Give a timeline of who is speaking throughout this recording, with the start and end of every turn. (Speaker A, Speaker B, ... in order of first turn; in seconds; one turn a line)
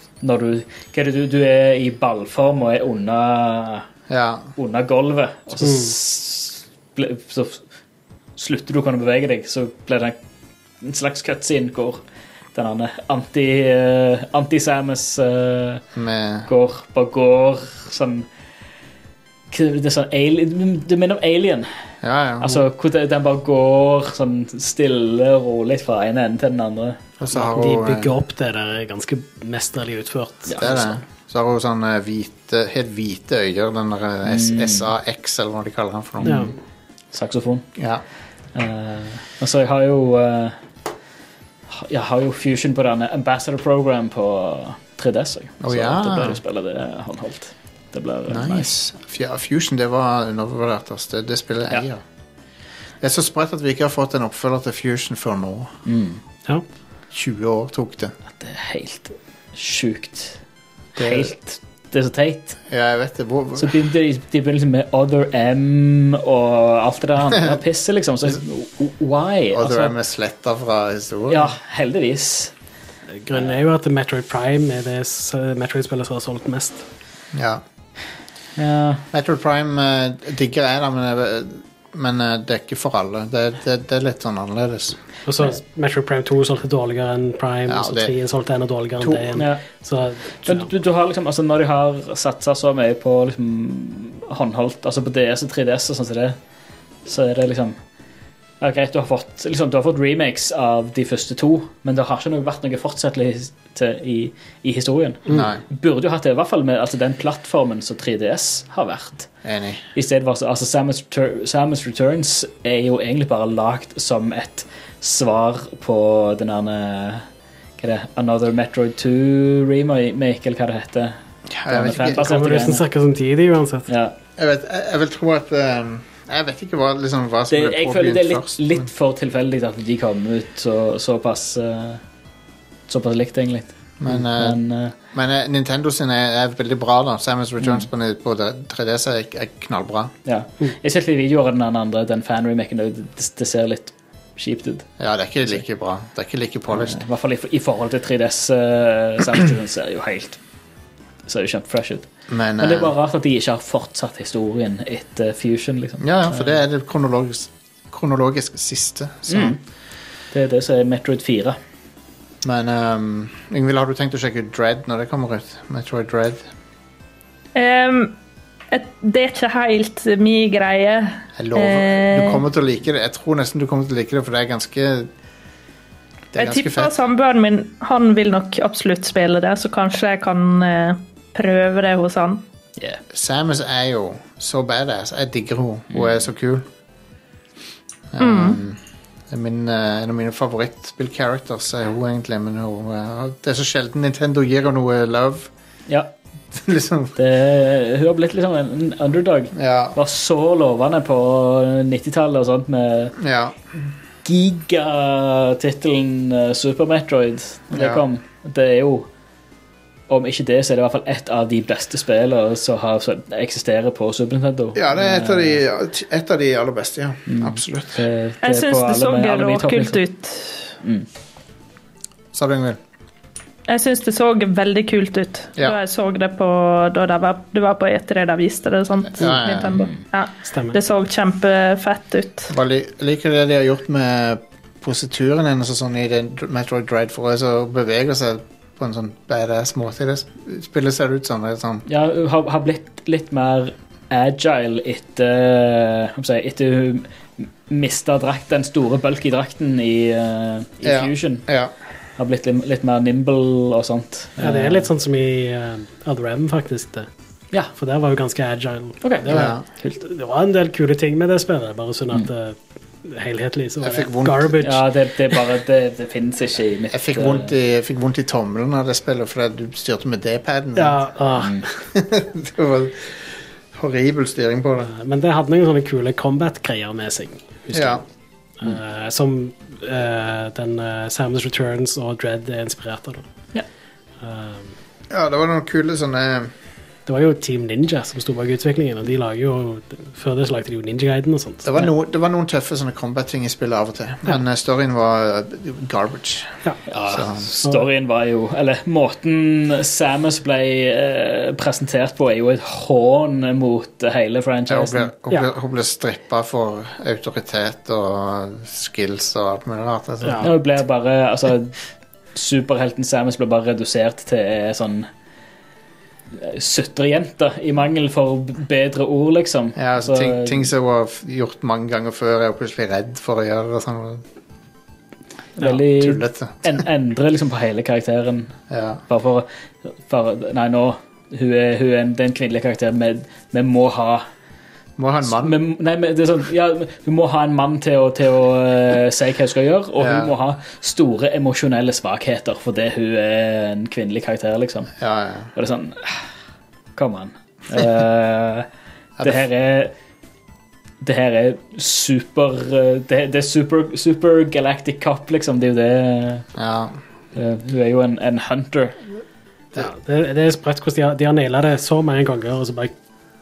Speaker A: 0.2-3.9
Speaker B: 4.1-4.5
Speaker A: 4.6-7.6
Speaker C: 5.6-5.9
Speaker A: 8.4-10.2
Speaker A: 10.8-12.0
Speaker A: 12.5-15.8
Speaker B: 15.9-16.5
Speaker A: 16.5-18.2
Speaker A: 19.5-21.7
Speaker B: 22.0-22.5
Speaker A: 22.4-27.0
Speaker B: 27.2-28.1
Speaker C: 27.3-30.6
Speaker A: 30.5-30.8
Speaker B: 30.6-36.5
Speaker A: 34.3-34.9
Speaker A: 36.2-36.5
Speaker C: 36.2-36.5
Speaker A: 37.1-37.7
Speaker B: 37.8-38.0
Speaker A: 38.5-40.5
Speaker A: 41.7-48.7
Speaker B: 45.6-46.4
Speaker B: 48.3-52.0
Speaker B: 53.0-55.7
Speaker A: 55.9-56.2
Speaker B: 57.1-58.1
Speaker A: 58.4-60.4
Speaker A: 60.9-62.6
Speaker B: 61.0-61.3
Speaker B: 62.7-63.8
Speaker A: 63.5-69.9
Speaker B: 69.5-71.5
Speaker A: 71.3-72.5
Speaker C: 73.2-76.8
Speaker B: 77.3-77.6
Speaker A: 78.6-79.0
Speaker B: 79.1-85.0
Speaker C: 85.2-90.7
Speaker B: 87.7-88.1
Speaker B: 89.0-89.4
Speaker A: 90.4-96.3
Speaker A: 97.0-97.8
Speaker A: 98.6-109.3
Speaker B: 105.3-105.6
Speaker B: 109.4-109.8
Speaker A: 109.9-117.2
Speaker A: 117.8-121.1
Speaker B: 121.5-122.2
Speaker A: 121.7-122.8
Speaker C: 122.0-123.9
Speaker A: 123.9-124.1
Speaker B: 124.4-128.9
Speaker A: 127.5-132.0
Speaker A: 132.9-134.9
Speaker B: 134.0-134.6
Speaker B: 135.1-140.1
Speaker A: 137.6-137.8
Speaker A: 140.2-144.9
Speaker B: 145.0-147.0
Speaker A: 146.7-150.4
Speaker A: 151.2-152.1
Speaker B: 152.3-152.9
Speaker A: 152.6-156.6
Speaker B: 156.0-159.6
Speaker A: 159.3-159.6
Speaker A: 160.3-161.6
Speaker B: 162.4-166.5
Speaker D: 167.5-168.2
Speaker D: 168.7-172.4
Speaker B: 171.3-175.1
Speaker B: 176.3-177.0
Speaker D: 176.4-182.4
Speaker B: 183.1-186.7
Speaker B: 188.1-195.5
Speaker D: 188.2-188.6
Speaker A: 195.9-196.1
Speaker B: 196.5-197.1
Speaker A: 197.1-203.1
Speaker B: 199.5-199.9
Speaker B: 203.2-203.6
Speaker A: 204.2-209.1
Speaker B: 207.7-208.0
Speaker A: 210.1-215.6
Speaker B: 214.7-218.0
Speaker A: 217.3-220.0
Speaker D: 218.4-220.7
Speaker B: 222.3-222.8
Speaker D: 223.7-232.5
Speaker B: 229.1-229.8
Speaker C: 230.5-230.8
Speaker B: 232.5-241.8
Speaker A: 241.9-251.4
Speaker B: 250.8-251.7
Speaker A: 252.2-254.8
Speaker C: 254.4-257.1
Speaker C: 257.8-264.8
Speaker A: 259.0-259.9
Speaker B: 259.3-259.6
Speaker B: 263.8-264.5
Speaker A: 264.6-267.5
Speaker B: 266.9-271.1
Speaker C: 270.8-271.7
Speaker B: 271.9-273.0
Speaker B: 273.7-274.9
Speaker C: 274.9-278.0
Speaker B: 277.7-278.0
Speaker C: 278.6-283.2
Speaker C: 284.2-284.7
Speaker B: 285.1-286.5
Speaker C: 287.1-291.9
Speaker B: 291.6-297.5
Speaker A: 296.9-305.1
Speaker B: 304.7-310.5
Speaker C: 310.2-310.5
Speaker A: 310.4-311.8
Speaker A: 312.3-315.1
Speaker A: 316.3-320.6
Speaker B: 319.8-324.2
Speaker A: 325.6-328.5
Speaker B: 325.6-326.8
Speaker B: 328.7-329.0
Speaker A: 329.1-334.2
Speaker B: 335.0-335.5
Speaker A: 335.2-344.9
Speaker B: 340.0-340.3
Speaker B: 345.0-345.5
Speaker A: 345.5-346.3
Speaker A: 346.9-348.7
Speaker B: 349.2-349.4
Speaker A: 349.2-349.9
Speaker A: 351.0-356.5
Speaker B: 356.6-357.0
Speaker A: 357.3-358.9
Speaker C: 359.8-362.9